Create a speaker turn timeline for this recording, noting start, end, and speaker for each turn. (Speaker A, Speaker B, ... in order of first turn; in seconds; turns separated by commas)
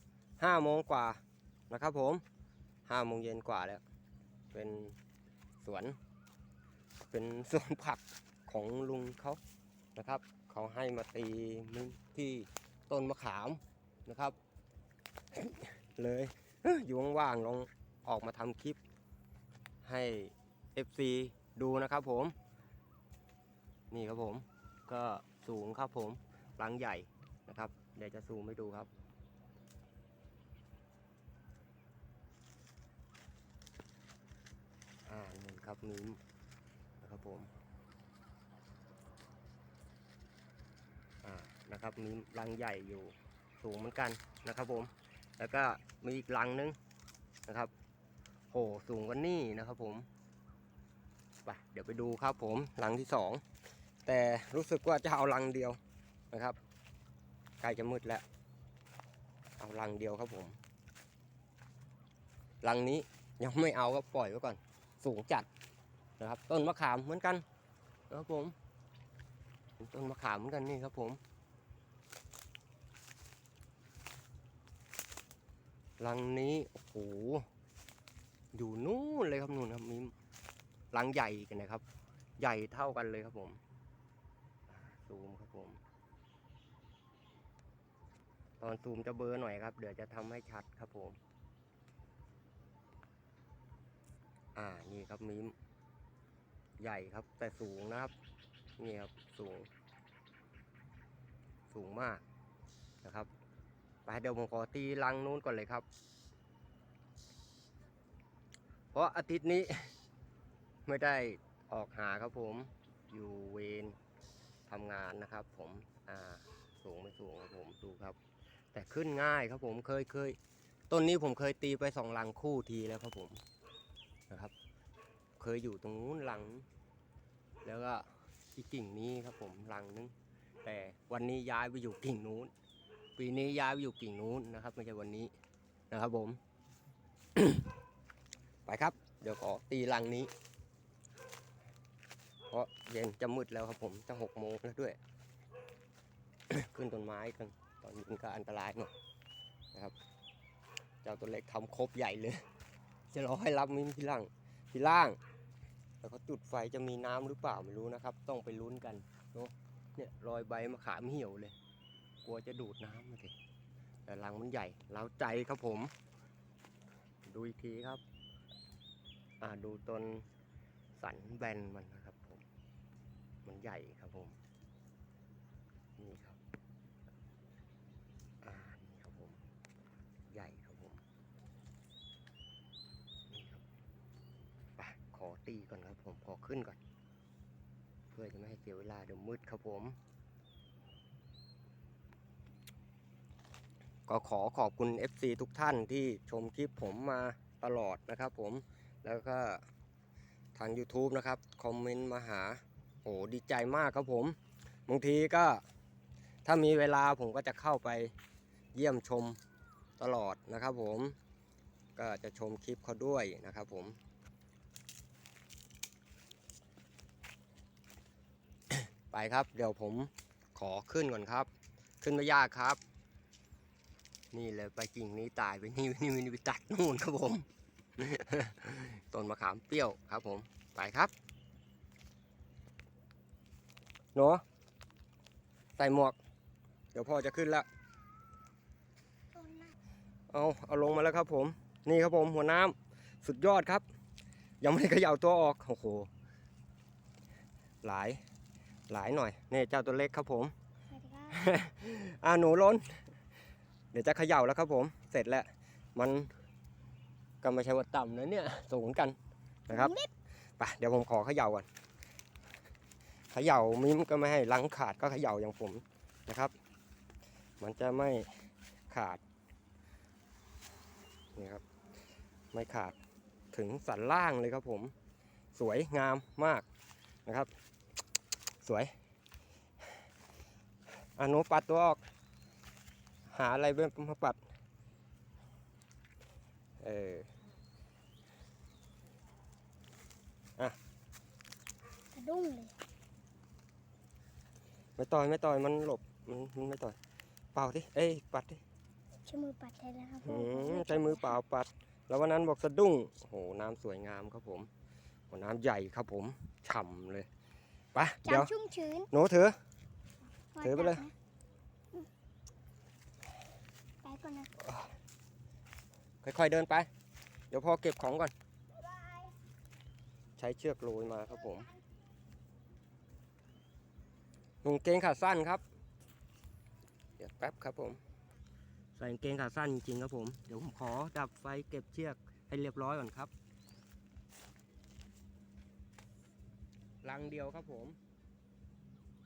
Speaker A: 0.4-2.2, Speaker A: 2.9-3.8, Speaker A: 4.5-5.0, Speaker A: 5.6-6.0, Speaker A: 7.1-9.4, Speaker A: 9.9-14.3, Speaker A: 15.3-18.8, Speaker A: 19.8-22.3, Speaker A: 23.9-28.9, Speaker A: 35.0-36.2, Speaker A: 37.0-37.5, Speaker A: 41.2-46.8, Speaker A: 47.5-47.7, Speaker A: 48.5-50.1, Speaker A: 51.5-53.4, Speaker A: 54.0-55.8, Speaker A: 56.3-56.6, Speaker A: 57.6-58.2, Speaker A: 59.6-60.6, Speaker A: 62.6-65.5, Speaker A: 66.2-67.4, Speaker A: 68.1-68.5, Speaker A: 69.8-71.2, Speaker A: 76.0-77.5, Speaker A: 78.5-80.1, Speaker A: 80.9-81.8, Speaker A: 82.4-83.6, Speaker A: 84.7-85.8, Speaker A: 88.6-91.2, Speaker A: 94.5-95.5, Speaker A: 96.8-98.1, Speaker A: 98.8-99.7, Speaker A: 101.7-102.2, Speaker A: 103.0-103.3, Speaker A: 104.0-105.9, Speaker A: 108.9-109.9, Speaker A: 110.8-114.0, Speaker A: 114.7-118.2, Speaker A: 118.7-120.4, Speaker A: 120.9-123.4, Speaker A: 124.3-124.5, Speaker A: 125.4-126.7, Speaker A: 127.6-132.5, Speaker A: 133.2-135.3, Speaker A: 135.9-136.4, Speaker A: 137.3-137.7, Speaker A: 138.7-140.3, Speaker A: 142.5-145.0, Speaker A: 146.5-148.9, Speaker A: 151.0-152.4, Speaker A: 153.1-155.2, Speaker A: 156.0-161.5, Speaker A: 162.2-163.3, Speaker A: 164.1-165.9, Speaker A: 167.2-168.0, Speaker A: 169.4-170.3, Speaker A: 171.0-172.4, Speaker A: 173.4-174.4, Speaker A: 176.0-176.4, Speaker A: 178.4-179.4, Speaker A: 180.3-181.0, Speaker A: 183.3-183.6, Speaker A: 184.8-186.8, Speaker A: 188.1-190.0, Speaker A: 194.1-199.6, Speaker A: 200.5-205.6, Speaker A: 206.4-208.1, Speaker A: 208.7-209.4, Speaker A: 210.0-211.2, Speaker A: 211.9-214.0, Speaker A: 218.7-221.5, Speaker A: 222.0-222.8, Speaker A: 224.3-227.4, Speaker A: 228.0-231.1, Speaker A: 234.1-234.4, Speaker A: 235.8-236.2, Speaker A: 236.9-237.7, Speaker B: 239.3-239.8, Speaker A: 240.3-243.8, Speaker A: 244.6-246.1, Speaker A: 247.8-248.2, Speaker A: 248.9-250.5, Speaker B: 250.9-251.4, Speaker A: 251.3-253.0, Speaker A: 253.9-256.3, Speaker A: 257.4-259.1, Speaker B: 259.7-260.1, Speaker A: 260.6-261.7, Speaker A: 263.3-266.5, Speaker A: 267.6-269.2, Speaker A: 271.3-271.6, Speaker A: 272.5-272.9, Speaker A: 273.5-274.9, Speaker A: 275.5-276.6, Speaker A: 278.6-278.9, Speaker A: 281.2-282.0, Speaker A: 283.3-284.4, Speaker A: 286.8-287.3, Speaker B: 292.1-292.7, Speaker A: 295.0-297.0, Speaker A: 297.5-298.6, Speaker B: 299.2-301.4, Speaker A: 300.2-304.7, Speaker A: 305.3-307.3, Speaker A: 307.9-308.5, Speaker B: 308.2-309.1, Speaker A: 309.1-309.6, Speaker B: 310.5-311.1, Speaker A: 310.6-311.0, Speaker B: 314.0-314.5, Speaker A: 316.2-316.9, Speaker A: 317.5-318.3, Speaker A: 320.4-321.7, Speaker A: 324.6-325.6, Speaker A: 327.2-328.0, Speaker A: 328.9-333.3, Speaker A: 337.0-338.0